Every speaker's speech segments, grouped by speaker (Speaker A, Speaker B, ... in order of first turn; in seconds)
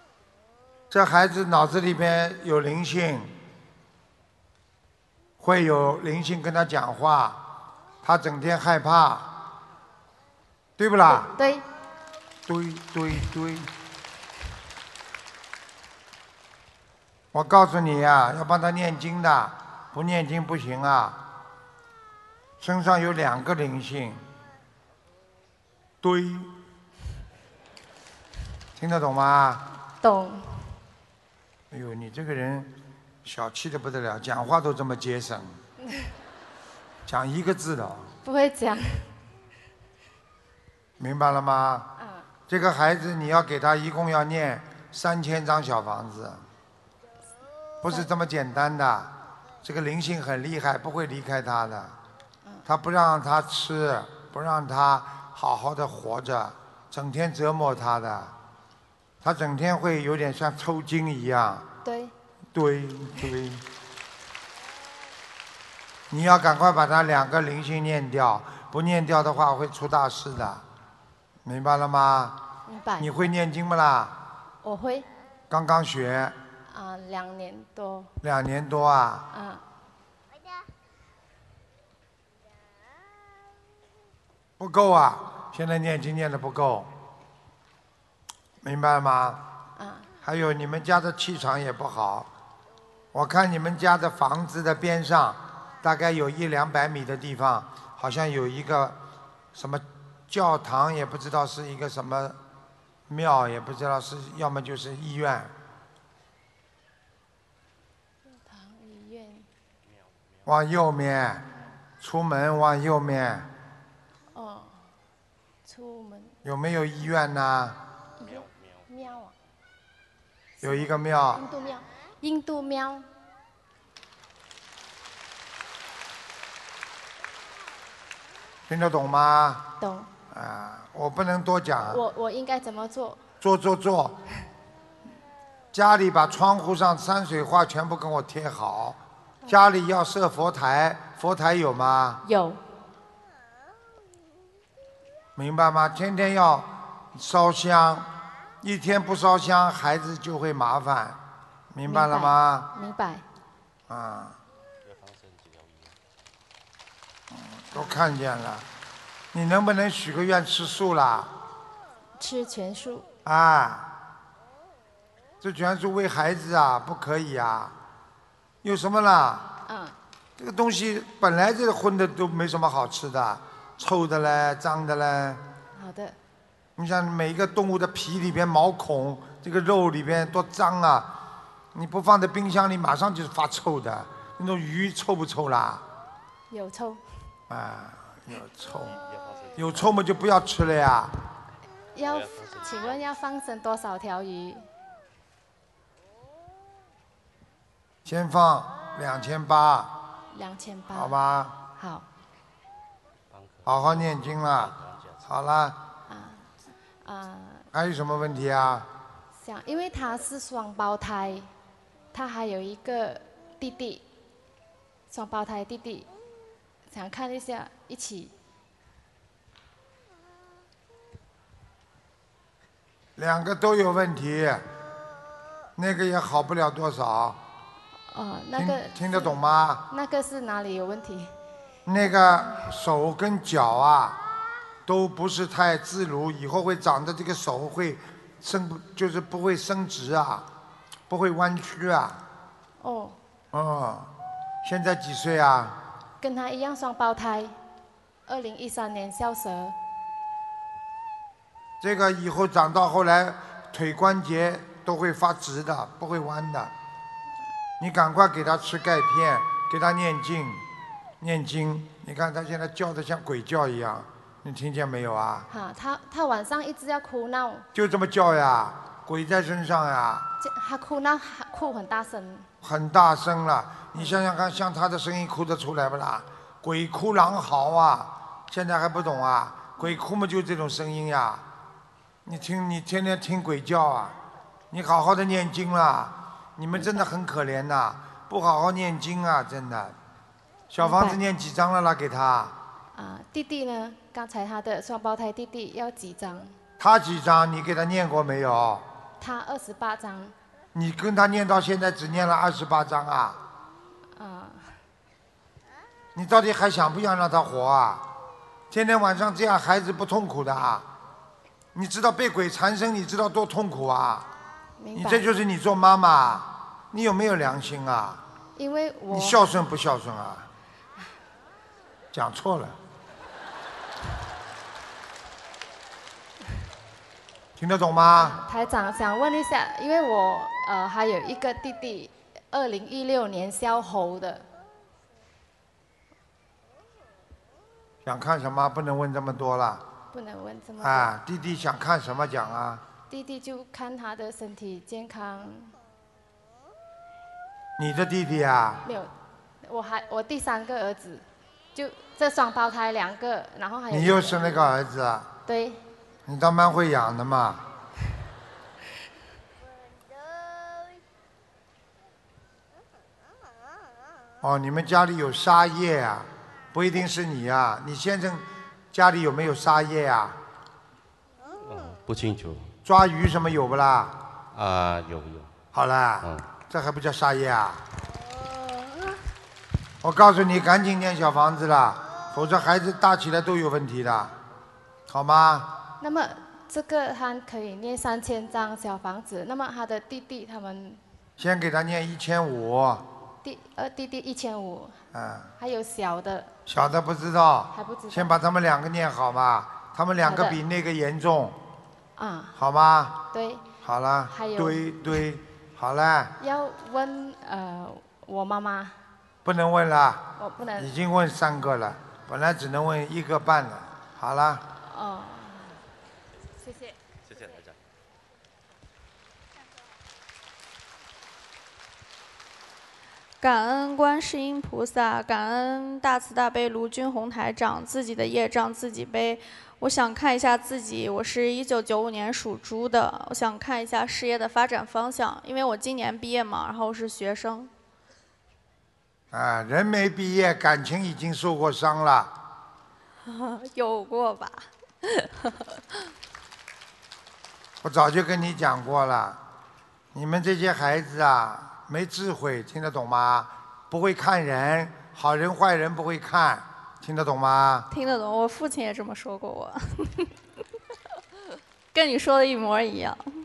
Speaker A: 0.9-3.3, 5.4-7.5, 8.0-9.3, 10.8-11.3, 12.5-13.7, 17.3-21.2, 22.6-24.2, 26.0-26.5, 28.8-29.6, 31.7-35.6, 37.1-38.1, 41.0-41.9, 42.5-46.5, 47.8-52.0, 52.7-58.3, 59.2-61.7, 62.5-63.6, 66.1-70.6, 71.5-72.4, 73.0-74.2, 75.5-76.4, 78.2-79.3, 84.6-86.9, 88.6-89.4, 90.2-92.3, 93.1-99.0, 99.5-102.4, 103.1-105.5, 110.5-111.5, 112.0-113.5, 116.4-117.8, 120.6-121.4, 128.7-129.7, 130.3-132.0, 133.4-134.2, 135.7-142.2, 145.4-148.1, 148.6-151.2, 151.7-152.7, 153.9-154.4, 157.3-158.7, 159.3-161.3, 163.2-163.9, 165.4-167.8, 168.6-169.5, 170.4-175.4, 176.8-181.1, 181.7-185.8, 187.5-189.0, 189.6-191.1, 198.1-199.9, 200.9-201.6, 203.7-205.8, 207.7-208.9, 223.2-224.7, 225.8-227.4, 228.6-229.8, 231.9-234.2, 234.9-240.5, 241.1-242.2, 243.5-244.1, 244.6-245.8, 251.8-256.7, 257.8-260.6, 261.2-265.5, 267.7-270.3, 272.6-281.4, 282.2-284.2, 284.7-290.0, 290.7-292.6, 296.8-298.9, 300.7-303.4, 306.1-308.1, 308.7-310.9, 311.8-314.3, 314.9-318.2, 319.1-320.5, 322.1-322.8, 327.6-328.4, 338.1-339.8, 340.8-342.8, 347.8-348.8, 353.9-355.3, 356.3-357.6, 364.4-370.4, 372.9-374.2, 375.7-377.8, 380.0-384.4, 385.1-385.7, 391.4-393.1, 395.1-395.5, 396.7-401.6, 402.6-403.2, 403.8-406.4, 409.4-414.6, 439.3-442.3, 447.8-449.4, 450.1-457.9
Speaker B: 11.1-11.7, 30.0-30.7, 38.2-39.0, 42.0-42.3, 61.9-62.1, 72.7-73.1, 74.6-75.1, 76.7-78.1, 79.3-79.6, 89.8-90.1, 108.3-109.5, 114.3-114.8, 115.7-116.4, 118.2-119.3, 120.6-123.1, 129.8-130.1, 131.9-133.2, 142.2-142.6, 151.9-153.2, 157.7-158.0, 162.2-163.1, 169.7-169.9, 175.8-176.2, 186.5-187.0, 191.9-194.7, 200.3-201.2, 201.8-202.1, 206.1-206.5, 207.0-207.7, 209.4-211.5, 212.1-214.0, 215.1-216.1, 216.9-218.3, 228.1-231.3, 242.8-243.2, 246.2-247.6, 248.3-249.8, 265.5-267.7, 270.4-272.5, 273.9-274.2, 286.7-287.1, 290.8-291.2, 292.9-296.5, 299.2-300.3, 304.2-304.7, 314.8-315.3, 318.6-319.5, 328.2-334.4, 340.1-341.1, 343.1-345.7, 348.9-349.1, 349.6-354.6, 355.5-355.8, 386.0-391.0, 393.4-395.0, 395.6-396.5, 397.7-398.4, 400.2-400.6, 402.2-402.5, 403.3-403.7, 404.3-405.2, 406.4-408.9, 410.4-410.9, 414.7-415.8
Speaker C: 155.4-155.9, 192.1-192.9, 203.3-204.9, 371.6-372.7, 374.5-375.5
Speaker D: 423.4-437.7, 443.3-445.5, 457.9-460.3, 461.9-463.2